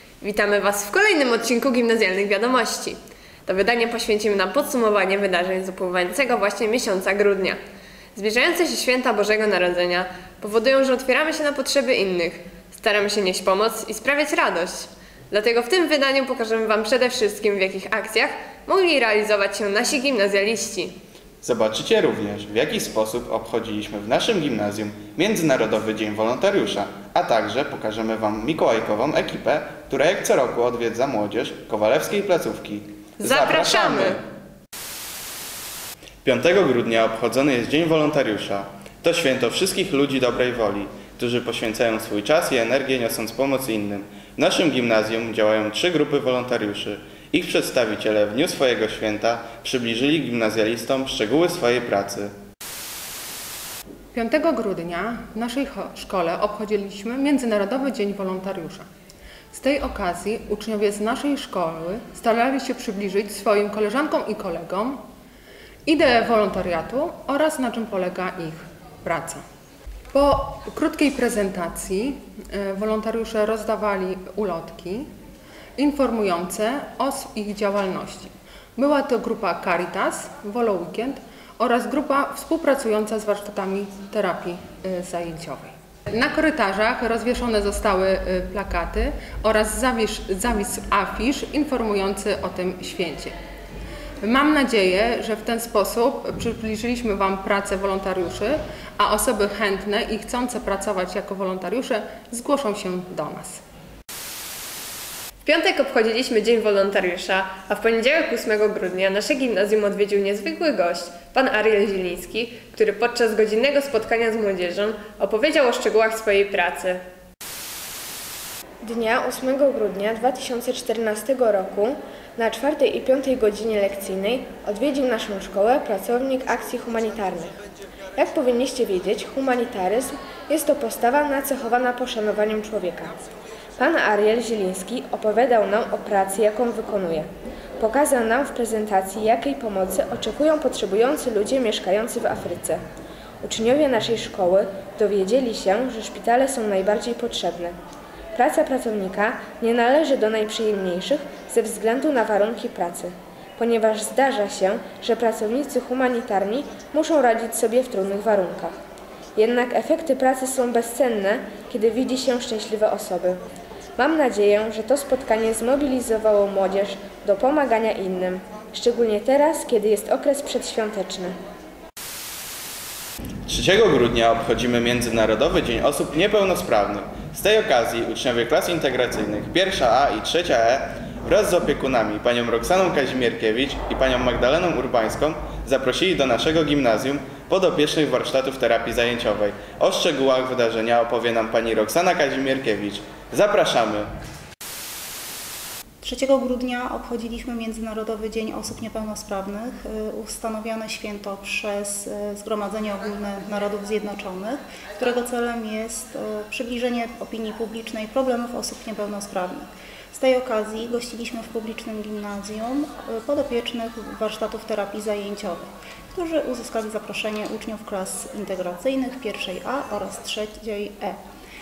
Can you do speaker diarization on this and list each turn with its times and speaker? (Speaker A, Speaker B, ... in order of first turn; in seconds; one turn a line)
Speaker A: 0.2-7.6
Speaker A: 8.2-21.0
Speaker B: 21.4-34.2
Speaker A: 33.2-34.2
Speaker B: 36.2-52.4
Speaker C: 54.1-58.9
Speaker C: 59.5-65.0
Speaker C: 65.9-69.4
Speaker C: 70.1-75.1
Speaker C: 75.8-93.3
Speaker C: 94.2-103.6
Speaker A: 105.5-117.0
Speaker D: 118.8-127.5
Speaker D: 128.2-133.1
Speaker D: 133.8-142.8
Speaker D: 143.4-147.8
Speaker D: 148.3-158.7
Speaker D: 159.4-163.4
Speaker D: 164.0-171.3
Speaker B: 173.5-194.1
Speaker E: 196.0-221.2